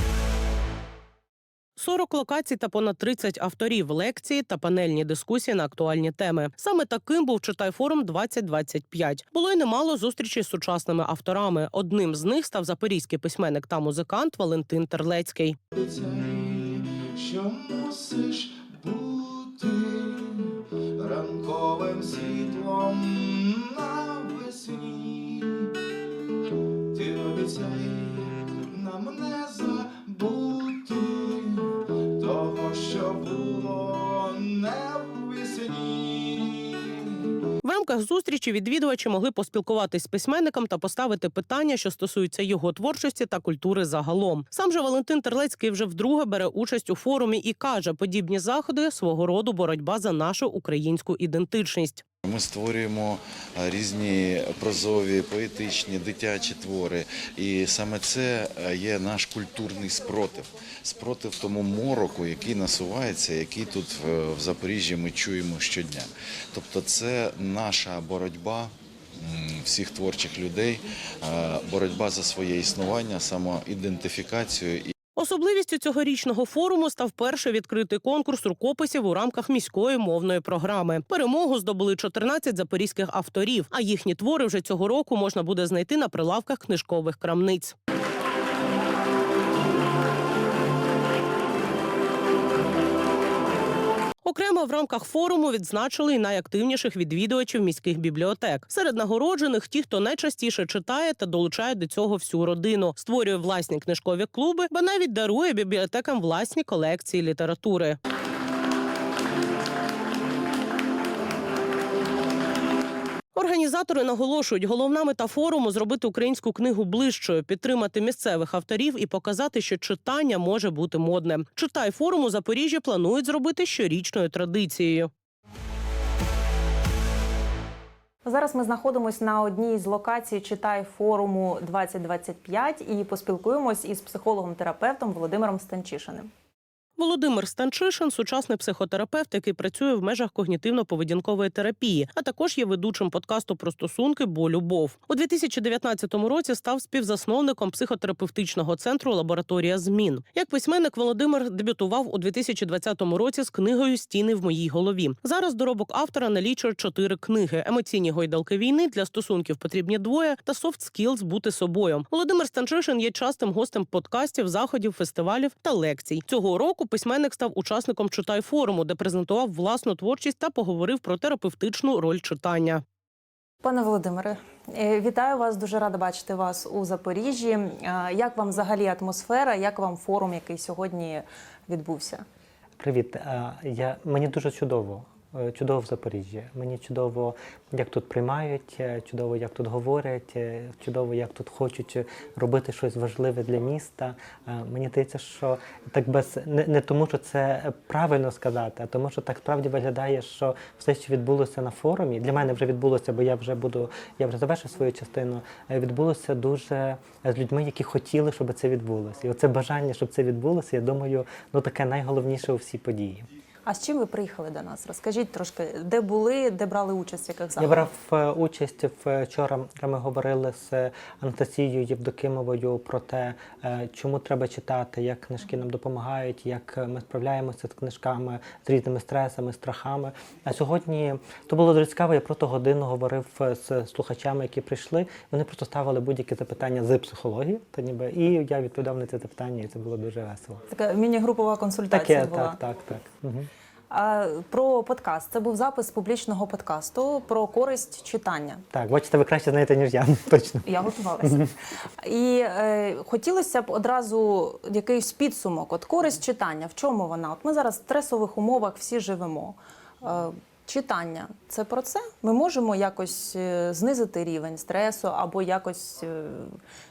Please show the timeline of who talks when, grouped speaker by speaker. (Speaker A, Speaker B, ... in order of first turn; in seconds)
Speaker A: 1.8-15.6, 37.6-52.0, 75.2-87.8, 94.2-108.0, 113.3-125.1, 137.0-172.8
Speaker B: 15.8-25.7, 26.9-37.2
Speaker C: 52.2-74.9
Speaker D: 128.2-136.3, 173.6-182.2, 213.7-217.9, 240.7-242.6, 243.9-248.6, 250.7-266.6
Speaker E: 182.8-213.3, 217.6-240.6, 241.9-243.5, 248.7-251.5